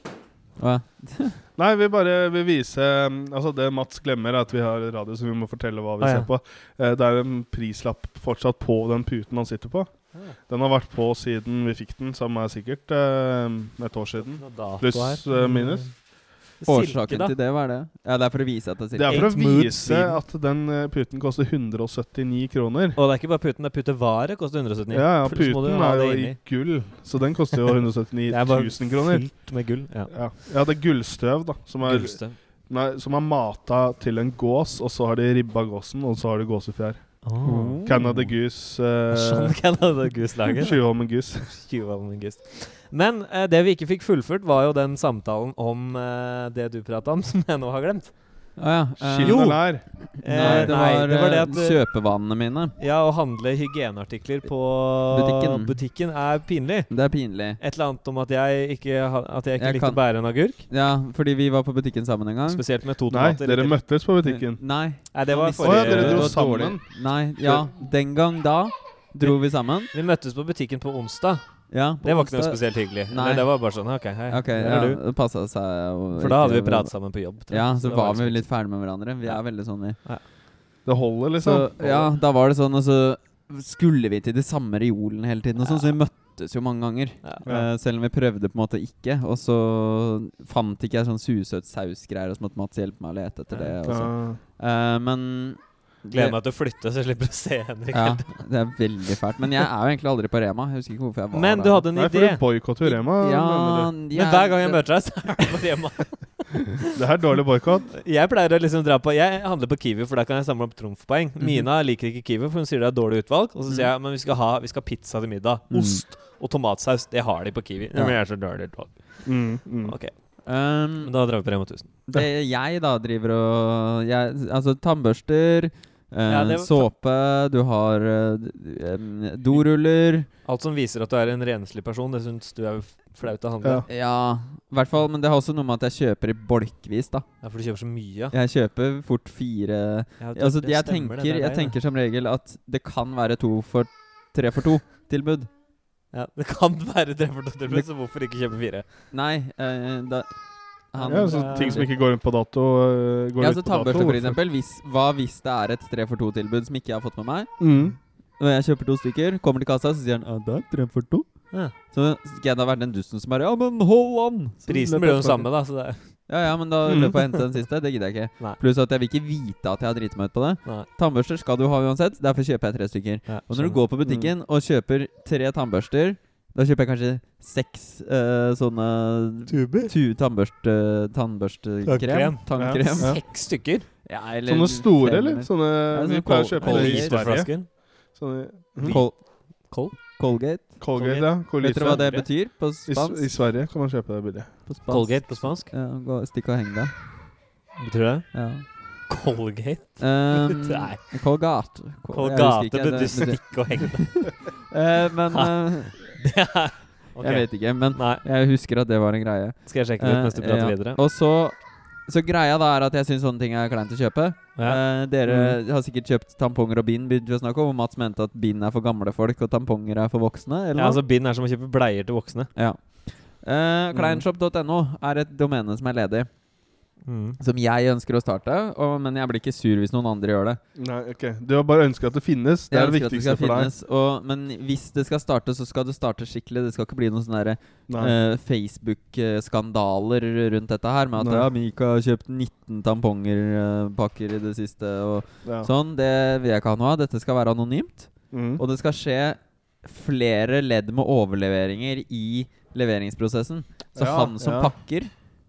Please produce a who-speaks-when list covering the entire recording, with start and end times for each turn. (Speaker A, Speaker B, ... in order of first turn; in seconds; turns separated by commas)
Speaker A: 0.6-1.4, Speaker B: 1.6-9.9, Speaker C: 6.0-6.3, Speaker B: 10.5-15.9, Speaker C: 14.3-15.9, Speaker C: 16.6-17.3, Speaker A: 16.7-19.3, Speaker B: 18.9-23.0, Speaker C: 19.1-20.2, Speaker C: 23.0-26.4, Speaker B: 24.9-29.3, Speaker C: 28.3-30.1, Speaker B: 30.1-32.2, Speaker C: 31.8-32.4, Speaker B: 32.7-37.2, Speaker C: 37.2-38.2, Speaker A: 37.4-38.3, Speaker B: 37.8-39.6, Speaker C: 39.1-40.8, Speaker B: 40.6-41.5, Speaker C: 41.4-48.2, Speaker A: 48.6-52.8, Speaker B: 49.0-50.7, Speaker C: 49.2-49.6, Speaker C: 50.2-51.8, Speaker C: 52.8-56.9, Speaker A: 55.1-55.8, Speaker A: 56.9-57.6, Speaker C: 57.6-60.7, Speaker A: 59.6-60.0, Speaker A: 60.7-62.6, Speaker C: 62.5-63.8, Speaker B: 63.1-64.6, Speaker A: 64.2-69.9, Speaker C: 65.1-66.3, Speaker B: 65.6-66.9, Speaker B: 67.4-67.7, Speaker C: 69.9-71.4, Speaker A: 71.7-73.5, Speaker C: 72.0-75.0, Speaker A: 74.3-76.9, Speaker C: 76.2-78.5, Speaker A: 77.5-80.0, Speaker B: 80.9-82.1, Speaker A: 81.4-96.4, Speaker C: 85.6-86.0, Speaker B: 93.9-94.4, Speaker C: 96.1-98.4, Speaker A: 97.9-101.9, Speaker C: 101.3-102.4, Speaker B: 102.0-103.9, Speaker A: 102.9-105.7, Speaker C: 104.1-106.9, Speaker B: 106.8-107.9, Speaker C: 107.9-118.9, Speaker A: 111.4-111.7, Speaker A: 115.7-116.0, Speaker B: 119.2-120.0, Speaker C: 119.8-120.1, Speaker A: 120.5-121.1, Speaker C: 121.0-121.9, Speaker A: 122.1-130.3, Speaker C: 126.3-126.9, Speaker C: 130.4-133.8, Speaker A: 133.9-137.3, Speaker C: 137.4-138.3, Speaker A: 138.3-145.5, Speaker C: 140.2-141.7, Speaker C: 146.1-148.8, Speaker A: 149.1-150.3, Speaker A: 150.9-151.9, Speaker C: 151.0-151.9, Speaker B: 151.0-154.4, Speaker A: 153.4-157.5, Speaker B: 157.6-158.0, Speaker A: 158.4-161.3, Speaker A: 161.9-164.7, Speaker C: 164.7-166.0, Speaker B: 164.7-165.5, Speaker A: 166.3-183.2, Speaker B: 166.8-167.2, Speaker C: 173.3-174.3, Speaker C: 179.5-179.9, Speaker C: 181.8-183.9, Speaker B: 182.6-183.2, Speaker A: 184.1-187.4, Speaker B: 184.5-187.6, Speaker C: 186.6-187.7, Speaker B: 188.2-189.0, Speaker C: 188.8-189.1, Speaker A: 188.8-189.2, Speaker C: 189.7-189.9, Speaker A: 190.1-190.8, Speaker B: 190.8-192.1, Speaker C: 190.9-192.2, Speaker A: 191.6-193.2, Speaker B: 192.9-194.5, Speaker A: 194.7-196.9, Speaker C: 194.9-195.7, Speaker C: 197.8-198.3, Speaker A: 198.3-198.7, Speaker C: 199.1-201.0, Speaker A: 200.0-206.1, Speaker C: 202.1-204.3, Speaker C: 205.3-208.2, Speaker A: 207.2-211.6, Speaker C: 209.7-211.0, Speaker A: 212.1-221.0, Speaker C: 214.6-215.5, Speaker C: 220.8-222.5, Speaker A: 222.6-226.3, Speaker B: 223.9-224.2, Speaker C: 227.1-227.4, Speaker A: 227.4-230.6, Speaker B: 230.8-233.7, Speaker A: 232.7-255.1, Speaker B: 237.9-238.2, Speaker B: 241.2-241.5, Speaker B: 248.3-248.6, Speaker B: 253.9-254.7